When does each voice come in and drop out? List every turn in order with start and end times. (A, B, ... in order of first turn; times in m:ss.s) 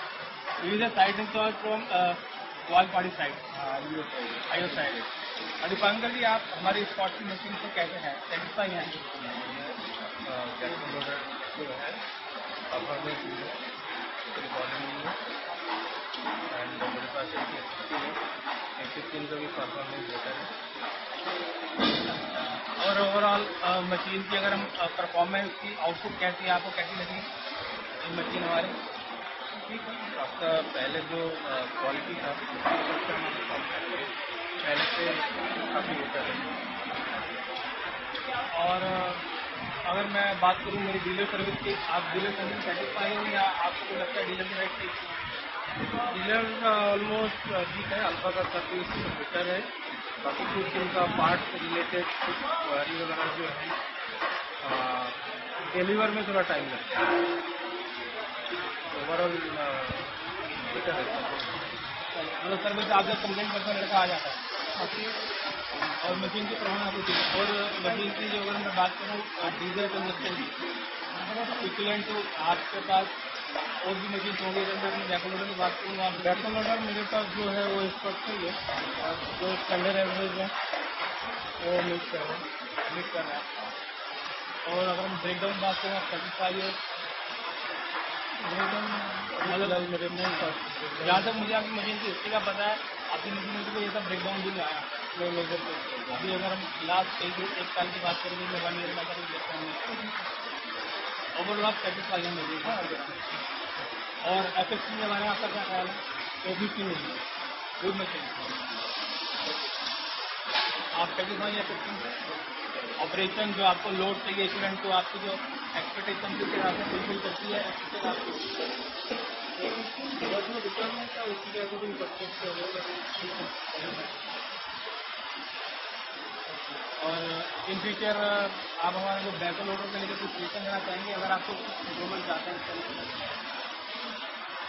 0:00.6-0:03.5 A
0:03.5-0:05.1 B
0:04.5-0:05.0 A
0:05.6-0:08.9 A
0:08.9-0:12.0 B
0:12.7-0:13.6 B
0:14.3-0:15.2 B
0:16.5-0:18.2 B
0:18.8-0:20.5 B
0:22.0-0:27.3 A
0:28.0-0:28.8 A
0:29.6-0:36.5 B
0:38.5-0:39.2 A
0:39.9-0:45.2 A
0:46.0-0:49.7 B
0:50.2-0:53.8 B
0:54.6-0:56.9 B
0:58.9-1:00.1 B
1:00.6-1:01.7 B
1:02.1-1:04.9 A
1:06.0-1:10.5 A
1:11.4-1:13.1 A
1:13.8-1:16.5 A
1:16.1-1:20.5 B
1:21.6-1:23.7 B
1:24.6-1:26.8 A
1:28.4-1:31.5 B
1:29.4-1:35.0 A
1:35.1-1:36.4 B
1:36.1-1:40.1 A
1:41.4-1:43.2 A
1:42.6-1:43.2 B
1:44.2-1:47.2 A
1:47.8-1:48.7 A
1:50.9-1:52.2 A
1:53.0-1:58.5 A
1:59.6-2:04.0 B
2:06.7-2:13.2 A